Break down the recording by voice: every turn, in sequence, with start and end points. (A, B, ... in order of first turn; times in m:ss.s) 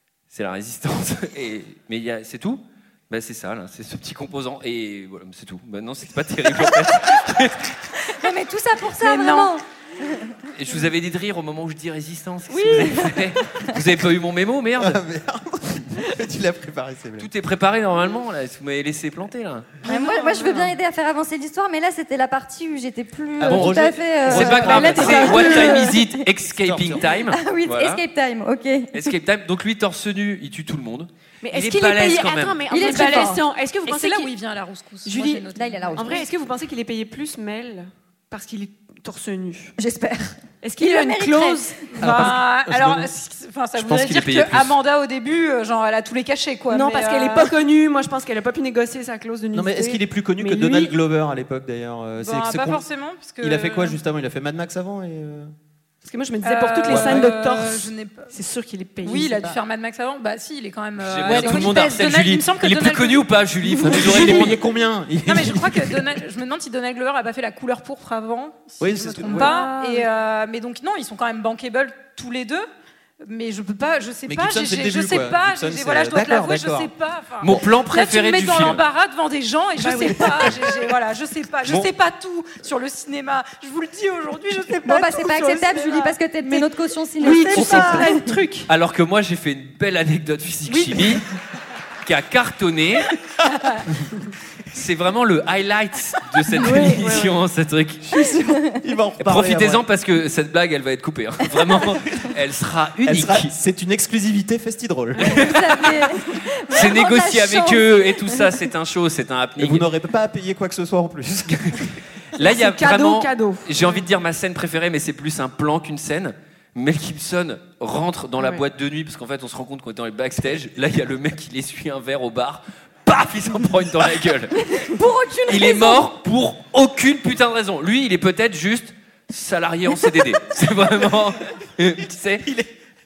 0:00.3-0:07.8 A
0:08.0-0:10.4 B
0:09.0-0:09.6 C
0:10.6-0:15.0 A
0:12.5-0:13.4 D
0:14.8-0:17.3 E
0:17.2-0:19.7 A
0:19.8-0:26.2 B
0:19.9-0:20.7 C
0:23.4-0:25.9 E
0:23.4-0:28.0 A
0:26.6-0:27.1 E
0:27.1-0:29.1 B
0:28.9-0:32.6 A
0:31.4-0:34.3 D
0:32.7-0:33.4 B
0:32.8-0:36.2 C
0:35.0-0:39.7 D
0:35.5-0:36.3 B
0:39.8-0:41.7 B
0:40.6-0:41.9 D
0:41.9-0:47.5 C
0:42.0-0:43.1 E
0:43.8-0:44.8 A
0:46.7-0:51.0 D
0:49.5-0:52.8 E
0:52.2-0:54.0 C
0:53.4-0:55.5 E
0:56.0-0:59.6 D
0:56.4-0:58.3 C
0:56.9-0:57.2 E
0:59.0-1:03.3 C
1:01.0-1:04.6 A
1:03.8-1:06.2 E
1:03.8-1:04.2 C
1:05.3-1:12.7 C
1:08.8-1:09.6 E
1:09.2-1:10.1 D
1:13.2-1:25.3 C
1:14.3-1:16.9 E
1:17.4-1:18.8 A
1:19.8-1:20.7 D
1:24.8-1:28.2 B
1:24.9-1:28.7 D
1:27.7-1:28.2 C
1:28.7-1:31.2 A
1:30.7-1:31.2 D
1:32.0-1:33.1 A
1:33.5-1:33.8 C
1:34.7-1:38.1 A
1:36.6-1:37.4 D
1:38.1-1:39.9 E
1:38.2-1:38.8 B
1:39.2-1:43.5 A
1:43.0-1:45.7 E
1:45.2-1:46.0 A
1:45.2-1:48.5 B
1:46.7-1:49.9 A
1:49.6-1:51.9 E
1:52.3-2:04.8 A
1:52.4-1:54.0 D
2:04.7-2:06.1 B
2:05.5-2:12.5 A
2:12.4-2:12.7 E